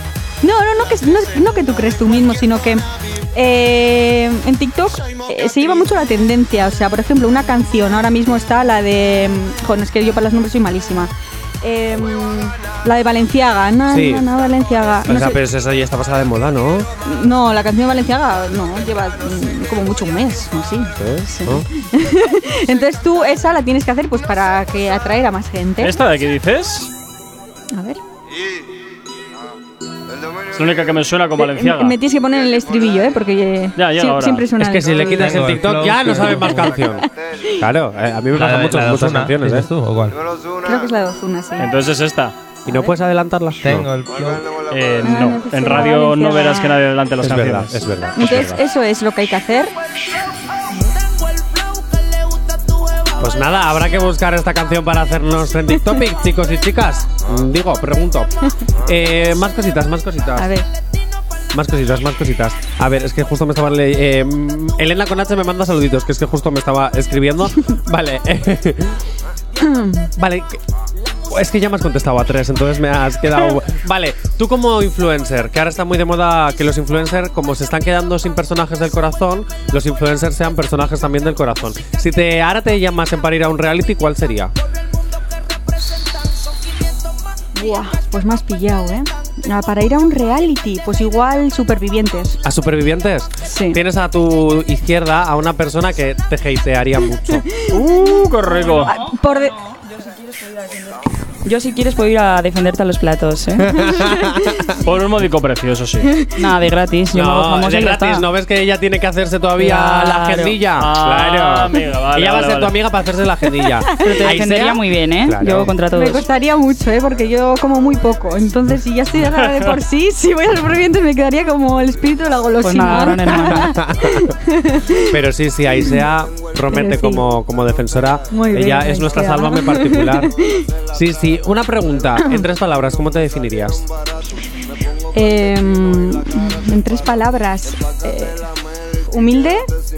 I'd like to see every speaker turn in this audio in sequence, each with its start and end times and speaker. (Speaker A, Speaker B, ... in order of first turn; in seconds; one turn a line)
Speaker A: 0.4-11.1
Speaker A: 11.6-15.4
Speaker B: 13.9-14.2
Speaker B: 15.1-16.9
Speaker A: 17.0-26.0
Speaker B: 20.9-21.6
Speaker C: 25.8-26.9
Speaker A: 27.7-28.0
Speaker C: 30.5-31.9
Speaker A: 31.4-35.3
Speaker C: 33.8-34.5
Speaker B: 34.6-37.1
Speaker D: 35.1-36.6
Speaker A: 36.7-37.0
Speaker B: 37.6-39.7
Speaker D: 38.3-40.1
Speaker A: 40.6-41.7
Speaker C: 41.6-42.3
Speaker B: 42.6-43.9
Speaker D: 43.6-44.5
Speaker C: 44.7-47.8
Speaker A: 45.0-46.8
Speaker B: 47.2-48.6
Speaker A: 48.1-49.7
Speaker B: 53.2-58.3
Speaker B: 58.8-60.5
Speaker A: 60.4-60.6
Speaker B: 61.5-69.0
Speaker A: 69.6-70.1
Speaker B: 70.2-70.6
Speaker B: 71.3-84.5
Speaker A: 87.5-92.4
Speaker B: 92.4-97.5
Speaker A: 93.5-93.8
Speaker A: 97.3-97.8
Speaker C: 97.7-98.9
Speaker A: 98.8-99.5
Speaker E: 101.4-104.0
Speaker B: 103.7-104.7
Speaker C: 104.8-106.1
Speaker E: 106.3-108.2
Speaker B: 107.1-115.7
Speaker E: 109.6-110.6
Speaker C: 110.8-112.8
Speaker E: 114.0-116.2
Speaker A: 115.9-125.1
Speaker E: 122.6-123.7
Speaker B: 123.5-124.3
Speaker B: 125.1-130.3
Speaker A: 126.7-127.2
Speaker A: 128.3-130.6
Speaker B: 130.9-133.8
Speaker A: 132.2-132.4
Speaker A: 135.1-138.5
Speaker A: 139.1-139.6